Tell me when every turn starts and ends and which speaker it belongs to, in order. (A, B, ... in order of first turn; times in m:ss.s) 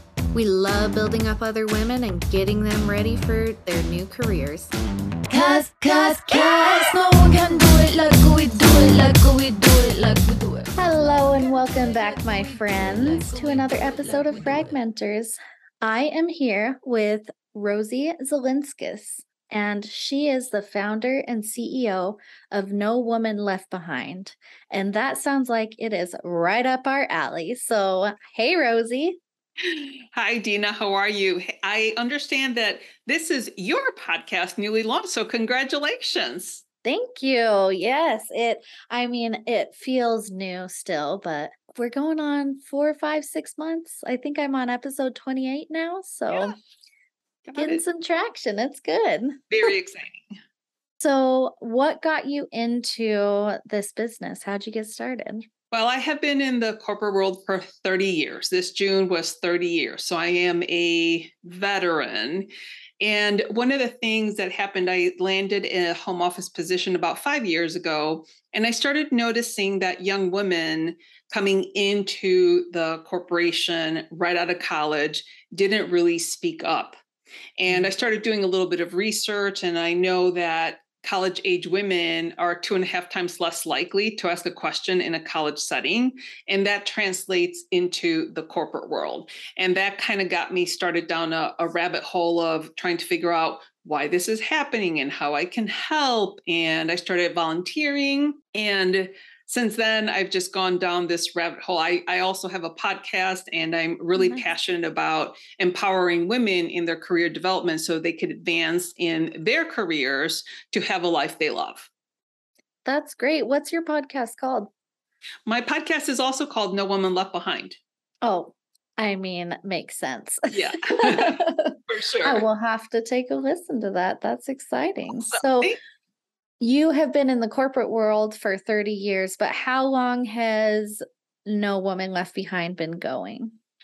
0:00.3-0:04.7 A
0:05.3-0:14.4 B
0:10.7-0:29.2 A
0:29.6-0:36.6 C
0:36.8-0:46.6 A
0:47.4-0:47.8 C
0:47.6-0:49.4 A
0:49.5-0:50.3 C
0:51.0-0:55.5 A
0:55.7-1:17.0 C
1:17.6-1:51.9 C
1:44.2-1:44.4 A
1:52.8-1:54.7 A
1:55.4-1:57.8 C
1:58.2-2:05.7 A
2:00.5-2:02.4 C
2:05.2-2:05.8 C
2:06.6-2:13.5 A